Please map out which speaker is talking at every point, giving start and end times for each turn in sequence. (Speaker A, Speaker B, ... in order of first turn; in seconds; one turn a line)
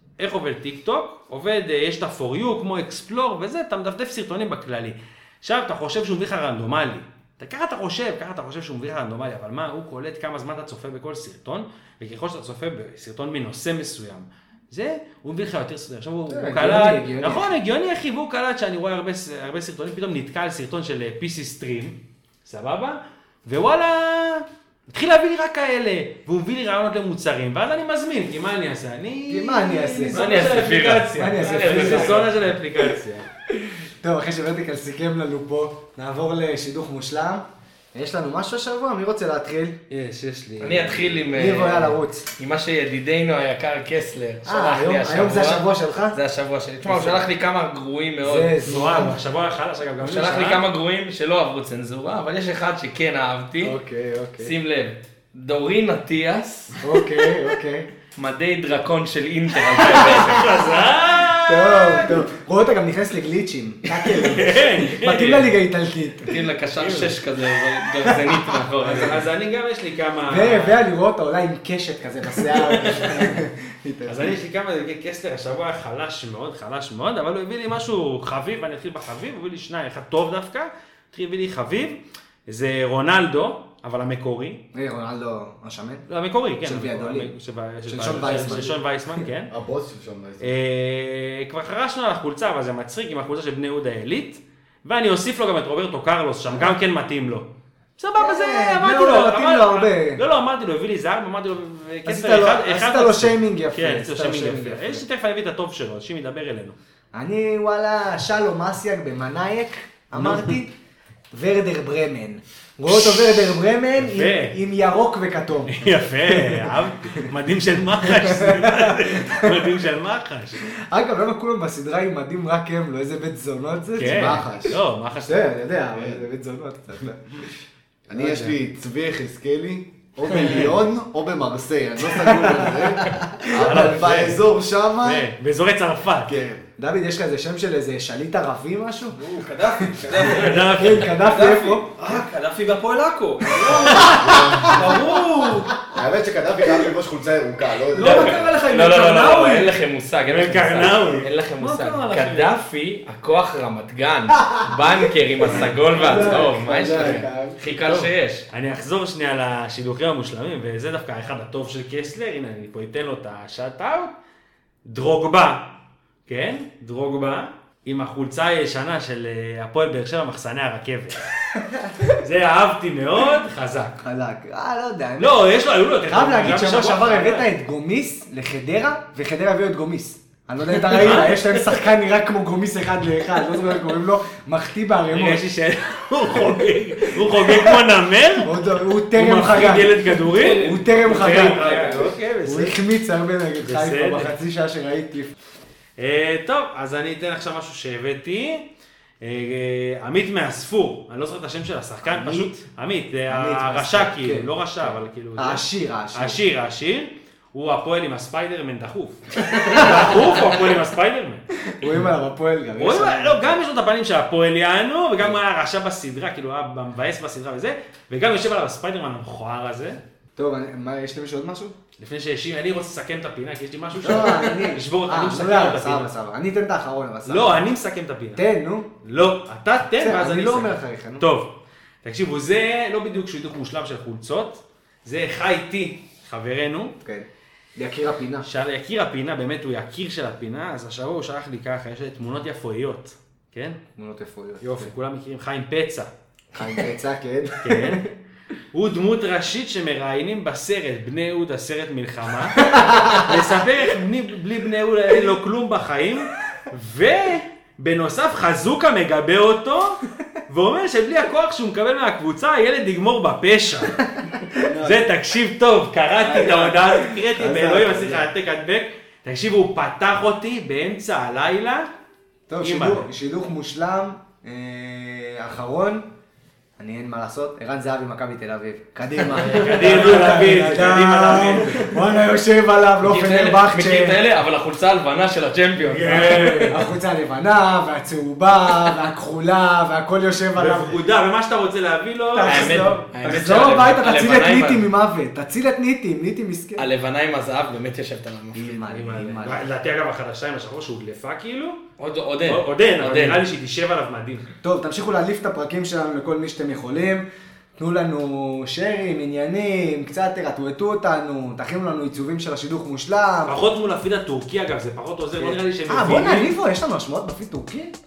Speaker A: 0.2-33.2
Speaker B: 16.3-17.4
Speaker B: 29.3-30.2
Speaker C: 30.1-32.2
Speaker B: 31.1-32.3
Speaker B: 33.5-39.8
Speaker A: 39.9-41.2
Speaker C: 40.6-48.5
Speaker B: 41.3-42.3
Speaker B: 44.4-46.2
Speaker B: 46.8-47.3
Speaker B: 48.2-49.1
Speaker A: 48.6-50.6
Speaker C: 50.0-53.8
Speaker B: 53.6-54.5
Speaker C: 54.4-56.8
Speaker B: 56.8-57.9
Speaker C: 58.1-60.6
Speaker A: 59.7-62.2
Speaker B: 61.4-66.4
Speaker A: 64.0-65.6
Speaker C: 66.2-69.2
Speaker A: 66.8-67.2
Speaker B: 68.1-69.2
Speaker A: 68.8-70.9
Speaker B: 70.3-74.3
Speaker A: 72.8-73.4
Speaker A: 74.0-84.6
Speaker B: 84.7-86.0
Speaker A: 86.1-89.5
Speaker B: 86.6-87.3
Speaker B: 87.9-88.8
Speaker D: 89.5-90.5
Speaker A: 90.4-106.8
Speaker B: 98.2-100.2
Speaker B: 102.0-105.0
Speaker B: 107.1-110.7
Speaker A: 110.1-110.6
Speaker B: 111.3-117.2
Speaker A: 112.9-114.6
Speaker A: 115.7-120.6
Speaker B: 118.0-119.7
Speaker B: 120.7-127.4
Speaker A: 124.0-125.7
Speaker D: 124.1-124.8
Speaker D: 125.9-126.3
Speaker D: 128.1-135.3
Speaker B: 128.1-128.6
Speaker B: 130.3-130.8
Speaker B: 132.2-134.3
Speaker A: 133.5-134.4
Speaker A: 135.0-136.3
Speaker D: 136.2-136.7
Speaker B: 136.8-139.2
Speaker E: 139.1-145.8
Speaker B: 139.8-141.8
Speaker A: 140.2-141.2
Speaker A: 143.9-144.4
Speaker B: 143.9-144.8
Speaker D: 144.2-144.8
Speaker D: 145.9-148.6
Speaker E: 147.9-149.7
Speaker B: 148.0-148.6
Speaker C: 148.1-158.5
Speaker A: 150.2-152.5
Speaker B: 155.9-157.6
Speaker A: 157.7-164.1
Speaker A: 164.8-165.7
Speaker A: 166.3-171.3
Speaker B: 171.6-172.1
Speaker A: 172.2-174.0
Speaker B: 174.0-175.5
Speaker A: 175.2-177.5
Speaker B: 176.0-185.4
Speaker A: 180.8-181.7
Speaker A: 185.1-188.6
Speaker B: 187.4-187.7
Speaker B: 188.4-191.7
Speaker A: 189.1-192.8
Speaker E: 190.3-192.2
Speaker B: 192.4-195.3
Speaker A: 193.6-194.3
Speaker A: 196.0-198.7
Speaker A: 199.2-211.4
Speaker B: 202.0-202.5
Speaker B: 203.3-206.4
Speaker B: 209.5-210.6
Speaker B: 211.6-213.6
Speaker A: 212.8-220.0
Speaker B: 220.3-221.8
Speaker A: 222.0-226.1
Speaker B: 224.0-227.6
Speaker A: 227.2-228.4
Speaker B: 228.3-228.9
Speaker A: 229.0-236.9
Speaker B: 230.0-231.2
Speaker B: 237.0-238.5
Speaker A: 238.4-243.8
Speaker B: 243.9-244.9
Speaker A: 244.6-246.1
Speaker B: 246.5-248.1
Speaker A: 247.6-248.1
Speaker A: 248.7-264.0
Speaker B: 252.7-253.2
Speaker B: 264.5-265.0
Speaker A: 264.6-271.9
Speaker B: 266.2-268.3
Speaker B: 272.5-276.1
Speaker A: 272.6-273.1
Speaker B: 276.8-284.2
Speaker A: 279.4-281.9
Speaker C: 283.0-286.7
Speaker A: 285.8-286.8
Speaker B: 286.6-291.0
Speaker A: 290.6-293.1
Speaker B: 292.3-296.9
Speaker C: 292.4-294.9
Speaker C: 296.8-299.5
Speaker B: 298.5-299.6
Speaker A: 299.4-301.8
Speaker C: 302.0-303.4
Speaker A: 302.4-304.5
Speaker B: 304.6-307.2
Speaker B: 307.8-313.6
Speaker A: 313.4-316.5
Speaker B: 315.4-317.9